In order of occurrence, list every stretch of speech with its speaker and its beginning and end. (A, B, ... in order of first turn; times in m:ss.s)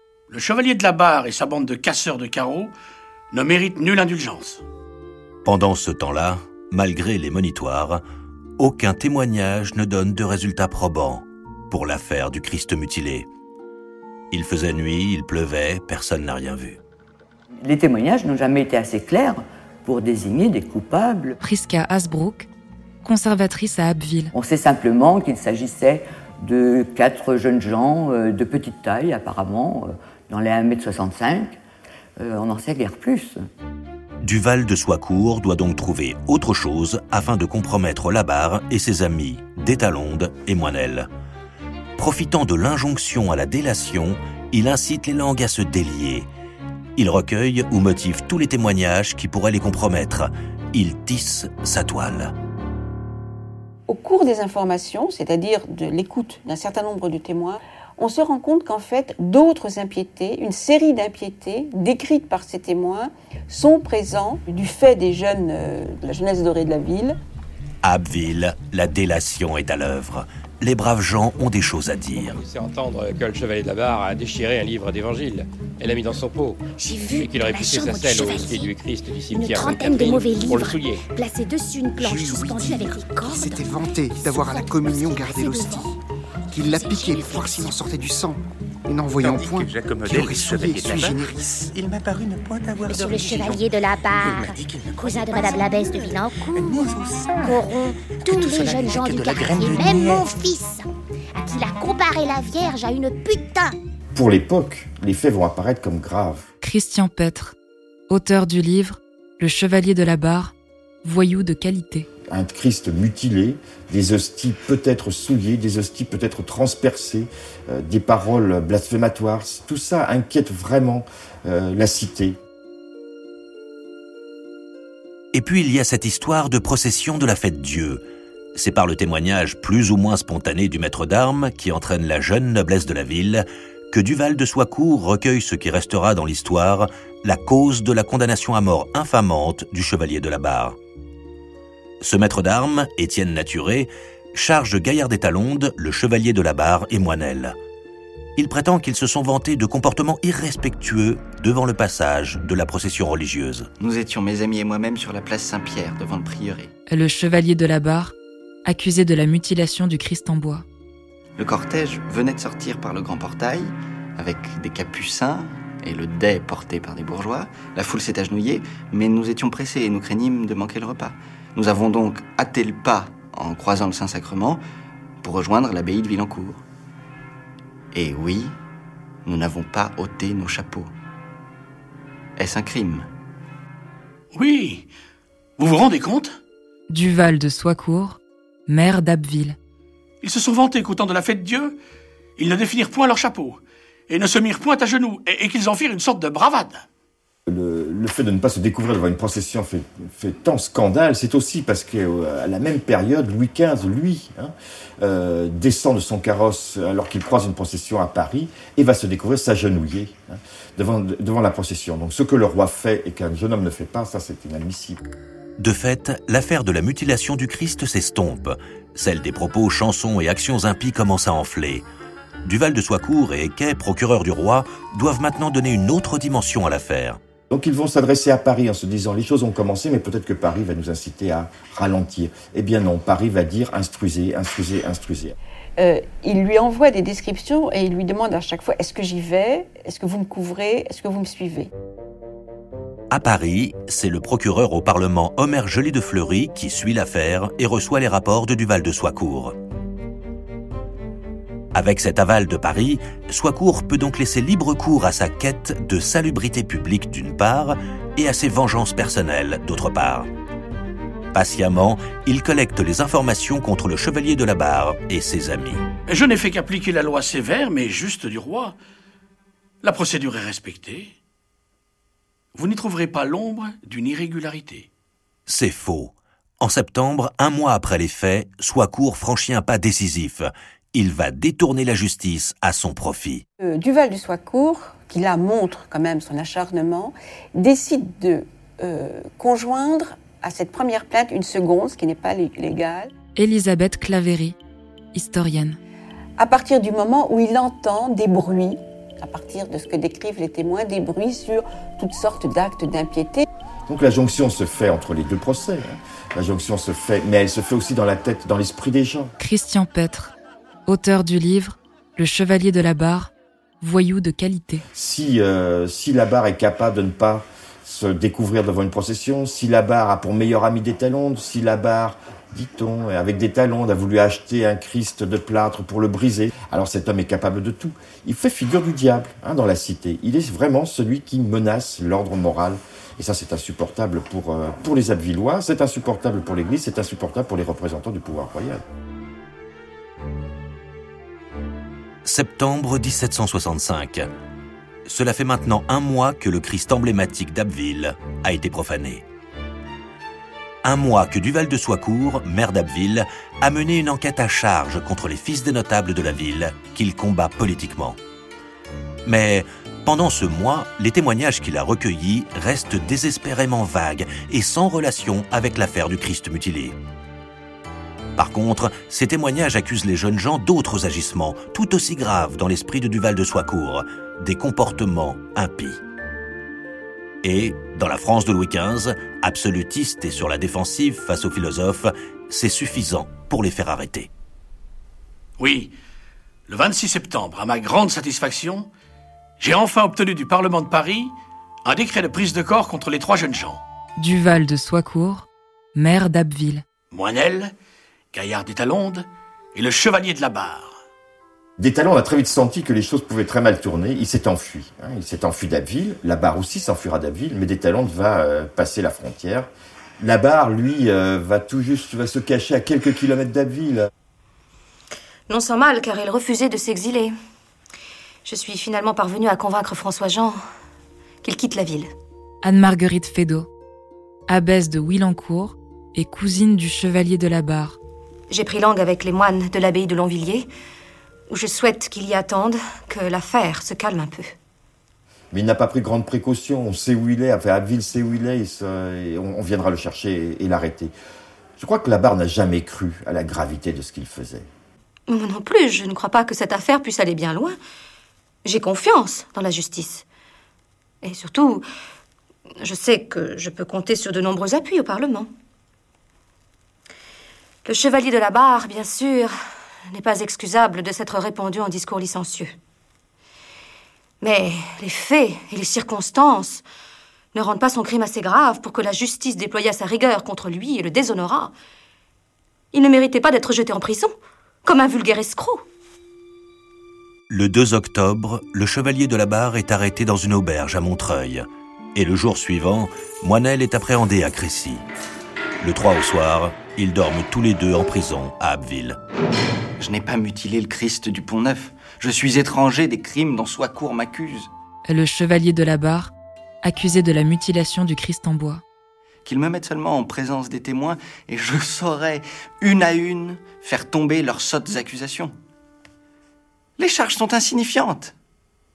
0:00.3-0:02.7 A
0:03.3-0:04.6 A
0:05.4-0:08.0 B
0:08.6-0:13.3 B
0:14.3-0:16.8 B
0:17.6-0:21.4 C
0:21.4-0:22.5 D
0:23.0-0:24.3 D
0:24.3-0:31.6 C
0:32.2-0:33.4 C
0:34.2-0:41.1 B
0:42.0-0:46.3 B
0:47.0-0:52.3 B
0:53.9-1:07.2 E
1:07.8-1:12.4 B
1:12.2-1:16.6 F
1:16.8-1:18.7 G
1:17.1-1:21.1 F
1:19.3-1:25.9 G
1:21.9-1:25.9 H
1:26.5-1:31.5 H
1:26.6-1:27.8 G
1:29.2-1:40.5 I
1:32.9-1:36.9 G
1:37.4-1:43.8 G
1:44.1-1:46.4 J
1:46.6-1:47.6 D
1:48.1-1:52.1 D
1:52.3-2:02.4 J
2:05.3-2:08.0 B
2:08.6-2:20.8 B
2:22.0-2:27.6 B
2:28.4-2:33.7 B
2:33.8-2:36.7 K
2:36.9-2:38.1 D
2:38.6-2:40.6 D
2:41.4-2:54.6 K
2:55.2-2:56.6 K
2:57.9-2:58.5 K
2:59.2-3:00.9 K
3:02.4-3:03.1 K
3:04.3-3:04.9 A
3:05.6-3:06.4 A
3:06.9-3:09.6 D
3:10.2-3:11.8 A
3:12.4-3:16.8 A
3:17.5-3:35.0 J
3:35.6-3:41.9 B
3:42.4-3:47.2 B
3:47.5-3:55.4 J
3:55.8-4:01.7 E
4:03.1-4:09.6 B
4:11.7-4:20.3 B
4:21.3-4:25.8 B
4:26.1-4:28.8 A
4:29.8-4:31.1 A
4:32.5-4:34.9 A
4:35.5-4:43.4 B
4:43.6-4:53.1 E
4:53.4-4:54.6 D
4:55.1-4:55.8 D
4:56.4-5:03.4 E
5:03.9-5:09.3 J
5:09.4-5:10.3 D
5:10.9-5:14.8 D
5:14.9-5:38.8 J
5:42.2-5:44.3 B
5:45.1-5:49.2 B
5:50.8-5:58.2 B
5:59.2-6:07.0 B
6:08.4-6:16.0 B
6:17.4-6:24.3 B
6:25.6-6:25.9 A
6:26.7-6:28.9 A
6:29.6-6:31.3 A
6:31.8-6:33.8 A
6:34.2-6:36.8 D
6:37.1-6:37.7 A
6:38.3-6:40.9 A
6:41.8-6:49.7 J
6:50.2-6:54.1 J
6:55.5-6:57.3 L
6:58.4-7:00.6 L
7:01.4-7:02.1 L
7:02.6-7:03.7 D
7:04.5-7:08.0 D
7:08.5-7:10.7 L
7:11.5-7:14.6 L
7:15.5-7:21.1 J
7:21.8-7:24.7 J
7:25.3-7:27.8 L
7:28.6-7:30.2 L
7:31.2-7:31.8 L
7:32.8-7:35.5 L
7:37.8-7:39.5 L
7:40.1-7:42.8 L
7:44.4-7:46.8 L
7:47.5-7:51.7 L
7:52.9-7:54.3 L
7:54.8-7:55.8 L
7:57.5-8:05.0 B
8:05.8-8:09.2 B
8:10.0-8:14.7 K
8:15.1-8:16.3 D
8:16.8-8:18.8 D
8:19.4-8:25.5 K
8:27.0-8:28.3 K